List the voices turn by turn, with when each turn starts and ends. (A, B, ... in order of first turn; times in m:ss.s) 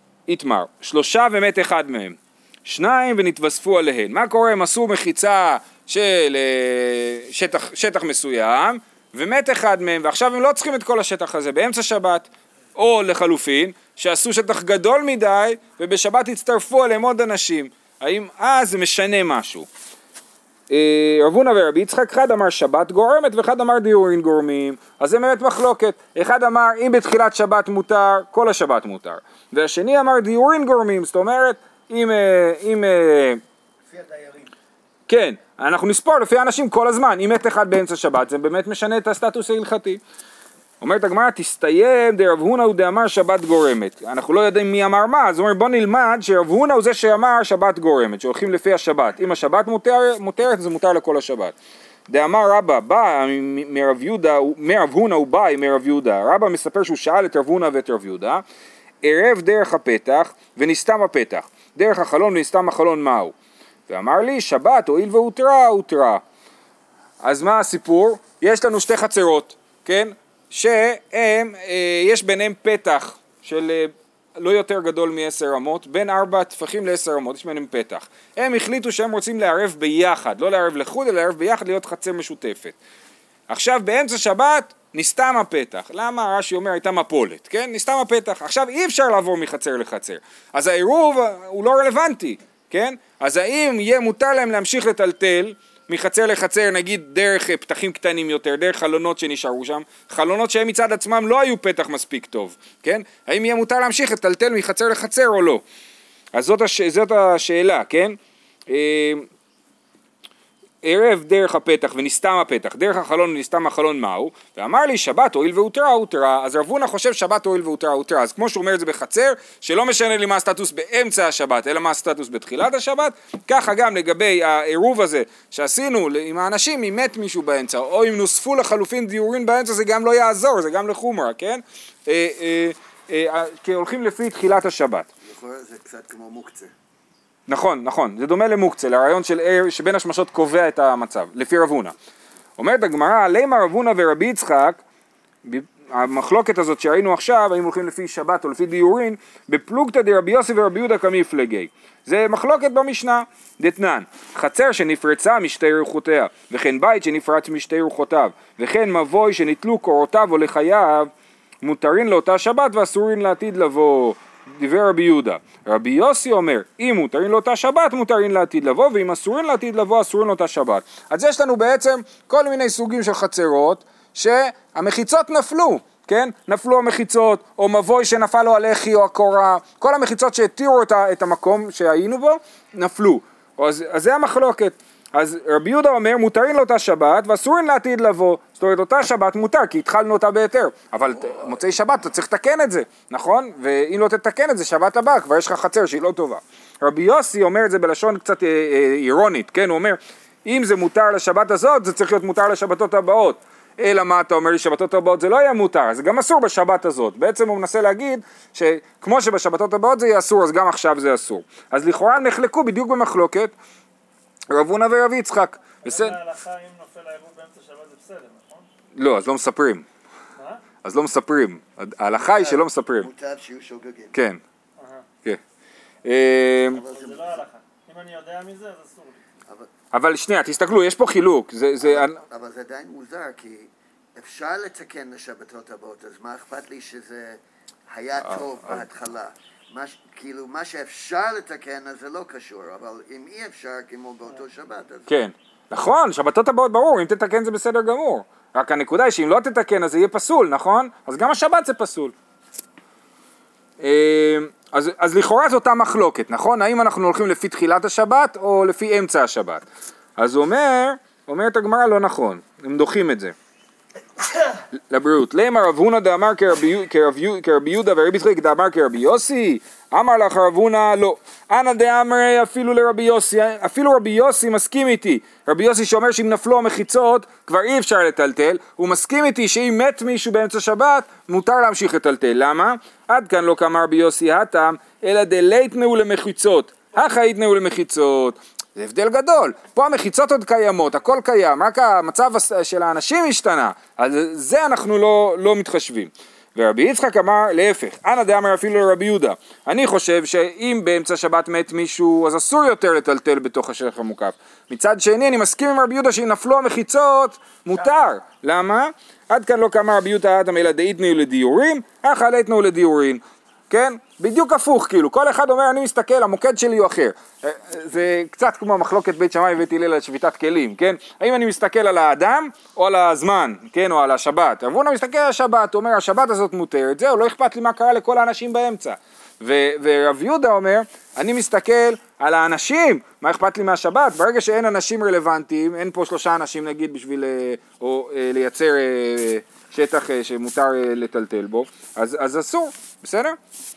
0:00.3-0:19.7 A
0:20.7-0:33.4 A
0:33.9-0:34.5 B
0:35.1-0:40.0 A
0:40.8-0:51.5 A
0:52.1-0:58.4 A
0:59.0-1:03.3 A
1:03.9-1:06.2 A
1:07.2-1:22.8 A
1:23.5-1:45.6 A
1:46.3-1:48.2 A
1:48.7-1:49.3 A
1:50.8-2:15.1 A
2:15.2-2:16.7 B
2:17.5-2:21.9 A
2:22.6-2:24.8 A
2:25.4-2:41.1 A
2:41.6-3:33.5 A
3:34.5-3:36.2 A
3:35.8-3:38.6 C
3:39.0-3:39.8 A
3:40.4-3:40.6 C
3:40.8-3:43.1 A
3:42.2-3:44.1 B
3:44.1-3:44.4 A
3:44.8-3:45.0 C
3:46.0-3:46.8 A
3:46.7-3:47.4 B
3:46.9-3:49.2 C
3:49.9-3:52.2 A
3:51.8-4:05.1 B
3:58.2-3:58.8 A
4:05.1-4:12.1 A
4:13.8-4:19.6 A
4:20.2-4:23.3 A
4:24.9-5:43.4 A